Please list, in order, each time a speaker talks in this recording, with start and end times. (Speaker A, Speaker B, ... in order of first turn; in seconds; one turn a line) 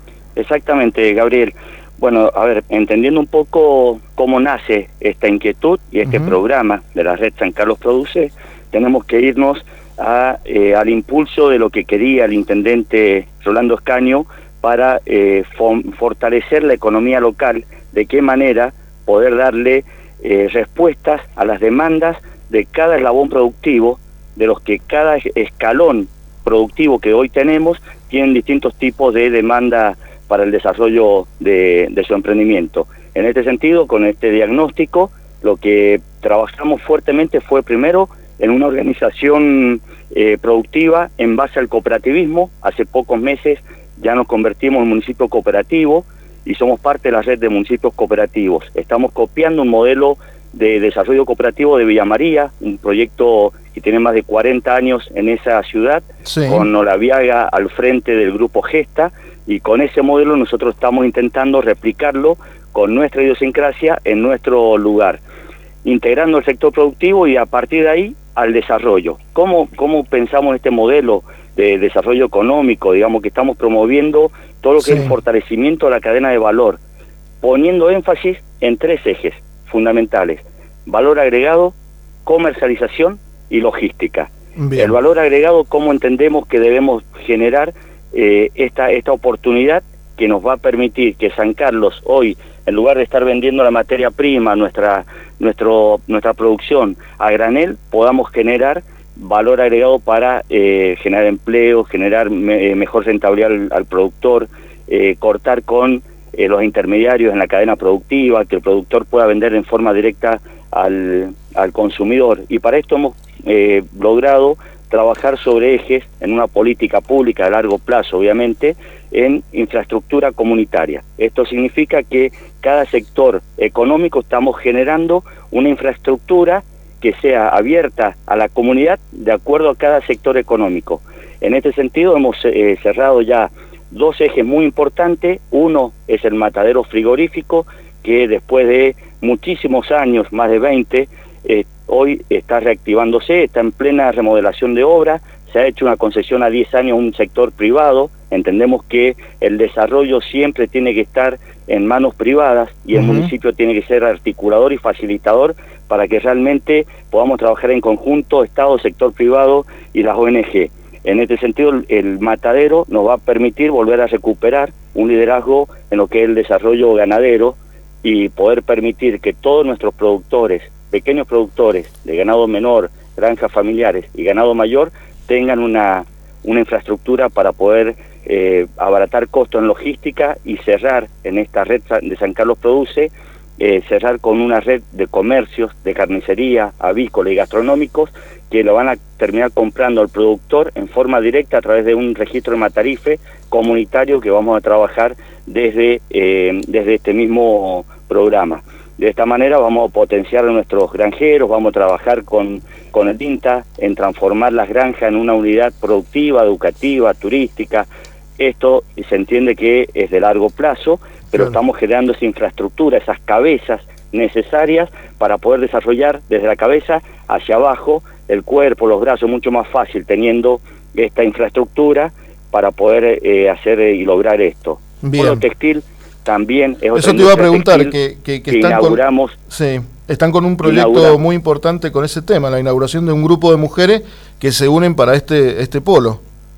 Speaker A: 0.3-65.2
Speaker B: 6.0-6.3
Speaker B: 56.2-56.7
Speaker A: 65.8-76.8
Speaker B: 74.8-75.1
Speaker A: 77.4-207.9
Speaker B: 84.6-85.0
Speaker B: 152.9-153.3
Speaker A: 208.4-227.9
Speaker B: 225.0-225.4
Speaker B: 226.9-236.2
Speaker A: 228.5-229.4
Speaker A: 230.6-231.2